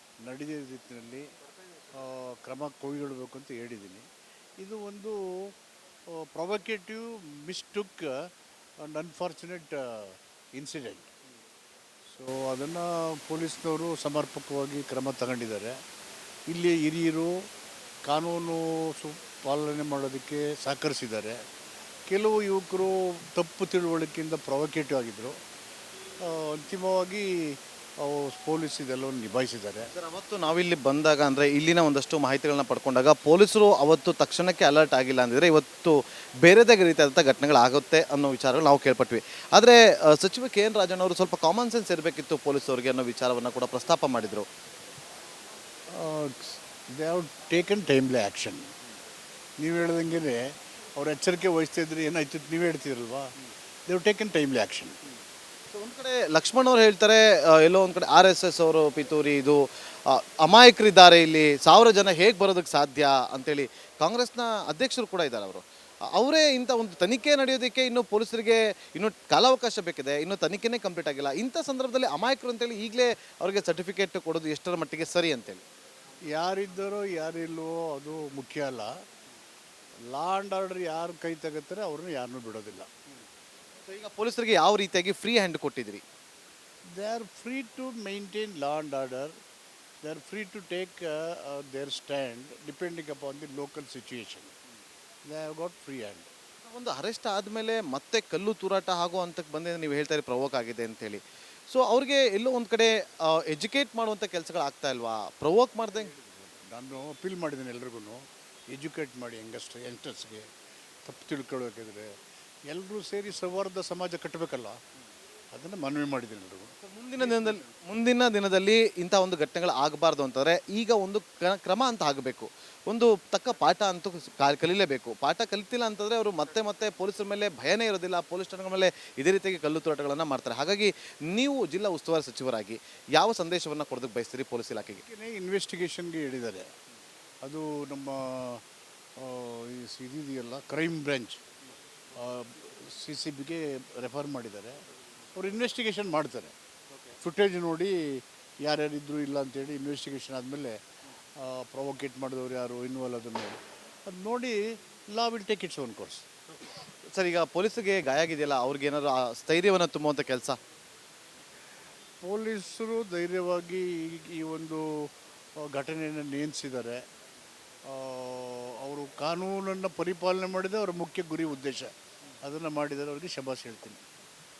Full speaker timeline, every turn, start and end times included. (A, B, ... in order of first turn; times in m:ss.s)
0:00.2-0:01.3 A
0:01.9-0:04.0 A
0:04.6-0:05.5 A
0:06.1-0:11.1 A
0:12.0-0:15.7 A
0:16.5-0:17.5 A
0:18.0-0:21.4 A
0:22.1-0:25.3 A
0:26.2-0:29.9 A
0:29.9-0:44.4 B
0:45.9-0:48.7 A
0:49.6-0:53.3 A
0:53.9-0:54.9 A
0:55.7-1:15.6 B
1:16.3-1:18.9 A
1:20.1-1:22.9 A
1:23.8-1:26.0 B
1:26.9-1:29.3 A
1:30.0-1:34.5 A
1:35.3-1:36.3 A
1:36.6-1:46.1 B
1:45.9-1:50.4 A
1:51.0-1:52.1 A
1:52.7-1:54.8 A
1:55.5-1:57.6 A
1:56.8-2:15.0 B
2:15.0-2:16.7 A
2:17.4-2:18.6 A
2:19.2-2:21.4 A
2:22.2-2:24.8 A
2:25.3-2:26.5 A
2:27.2-2:30.8 A
2:31.4-2:34.6 A
2:35.1-2:36.2 A
2:37.1-2:40.6 B
2:42.2-2:47.0 A
2:47.8-2:51.9 A
2:52.4-2:54.0 A